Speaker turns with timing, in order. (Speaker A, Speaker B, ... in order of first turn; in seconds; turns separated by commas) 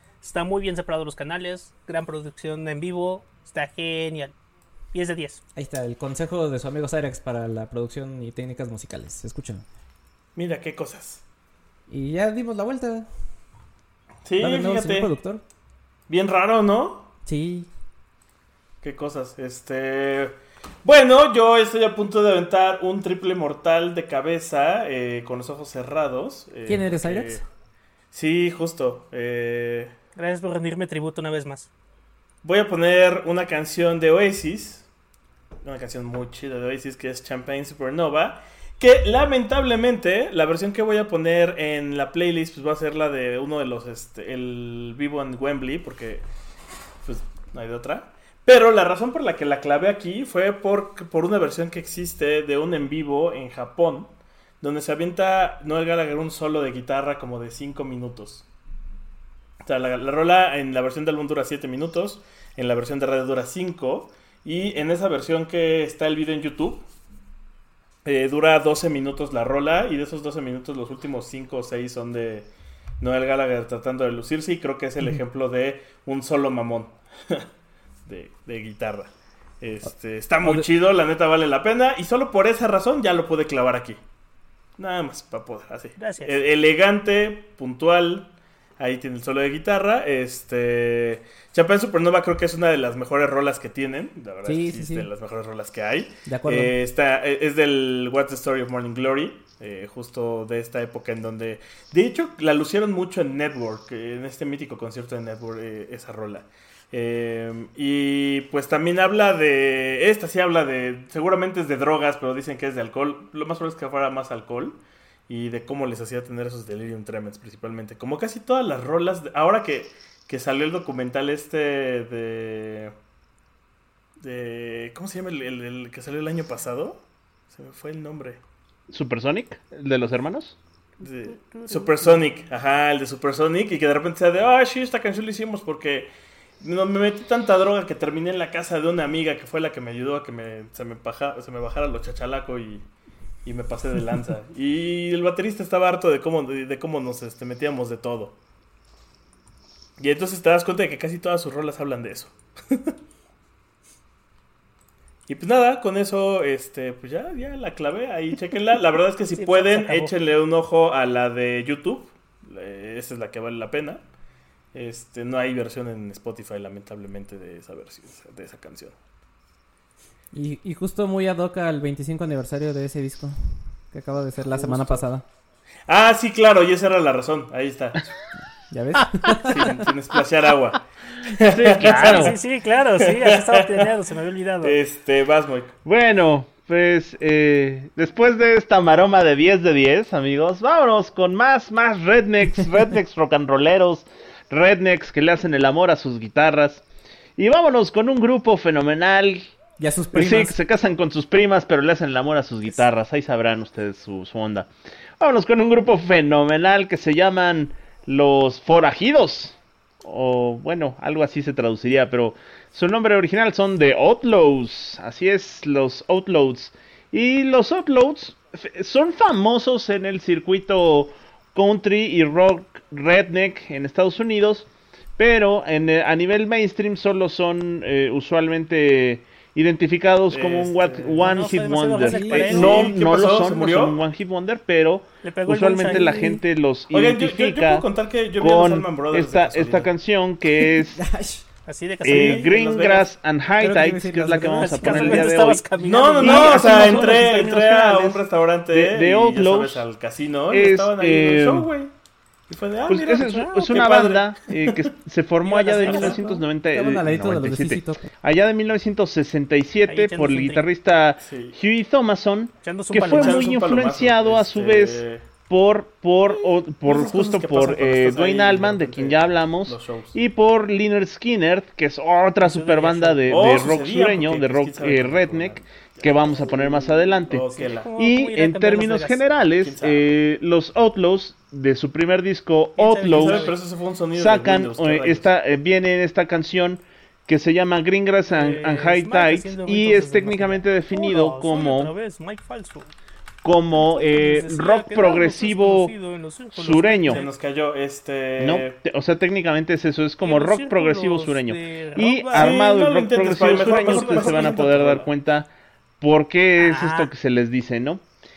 Speaker A: 0.2-4.3, Speaker A: 4.9-5.4, Speaker B: 5.5-9.7, Speaker C: 10.3-11.2, Speaker B: 11.9-13.1, Speaker C: 14.2-15.1, Speaker B: 14.4-15.4, Speaker C: 16.1-17.1, Speaker B: 17.2-17.7, Speaker C: 18.8-27.5, Speaker B: 26.7-27.4, Speaker C: 28.1-29.9, Speaker A: 30.2-31.7, Speaker C: 32.4-34.9, Speaker C: 35.6-46.2, Speaker C: 47.0-58.5, Speaker C: 59.6-66.8, Speaker C: 68.0-72.5, Speaker C: 73.0-77.5, Speaker C: 78.1-84.0, Speaker B: 80.4-80.7, Speaker C: 84.8-122.9, Speaker A: 86.0-86.3, Speaker B: 94.5-95.1, Speaker B: 96.3-96.7, Speaker C: 124.2-128.4, Speaker D: 128.9-130.6, Speaker C: 131.0-136.1, Speaker A: 131.0-132.4, Speaker C: 136.6-142.9, Speaker C: 143.4-148.4, Speaker C: 150.0-152.9, Speaker C: 155.3-164.0, Speaker A: 159.3-160.1, Speaker C: 164.7-169.0, Speaker B: 170.3-175.2, Speaker C: 174.6-175.0, Speaker C: 175.9-178.1, Speaker B: 178.7-179.8, Speaker C: 179.3-182.4, Speaker D: 181.4-182.4, Speaker A: 181.8-184.8, Speaker C: 182.9-183.9, Speaker C: 184.6-185.7, Speaker D: 185.8-196.8, Speaker D: 197.4-199.5, Speaker B: 199.8-200.6, Speaker D: 200.1-241.0, Speaker C: 230.3-231.6, Speaker A: 231.2-232.9, Speaker B: 232.0-232.7, Speaker C: 232.3-234.0, Speaker A: 235.2-236.2, Speaker B: 235.8-236.4, Speaker C: 236.9-239.9, Speaker B: 240.7-241.5, Speaker A: 241.7-242.5, Speaker D: 242.0-245.6, Speaker C: 242.1-243.1, Speaker B: 243.6-245.5, Speaker A: 244.5-248.0, Speaker C: 245.8-251.9, Speaker D: 246.2-248.2, Speaker D: 248.7-249.8, Speaker D: 250.5-251.7, Speaker C: 252.5-254.9, Speaker D: 252.9-283.6, Speaker A: 255.4-256.2, Speaker B: 255.8-258.1, Speaker A: 259.9-260.6, Speaker C: 261.2-261.6, Speaker A: 262.6-263.5, Speaker C: 262.9-265.2, Speaker C: 266.3-270.2, Speaker A: 272.4-273.5, Speaker C: 273.3-277.9, Speaker A: 277.6-279.2, Speaker C: 279.6-280.1, Speaker A: 282.8-283.6, Speaker C: 283.1-285.3, Speaker D: 284.1-291.9, Speaker A: 288.3-292.9, Speaker D: 293.4-295.9, Speaker A: 294.1-297.3, Speaker D: 296.6-297.2, Speaker C: 297.1-298.8, Speaker D: 298.4-305.5, Speaker A: 300.2-302.6, Speaker C: 302.3-305.1, Speaker A: 303.4-304.6, Speaker D: 306.0-308.0, Speaker A: 306.6-307.1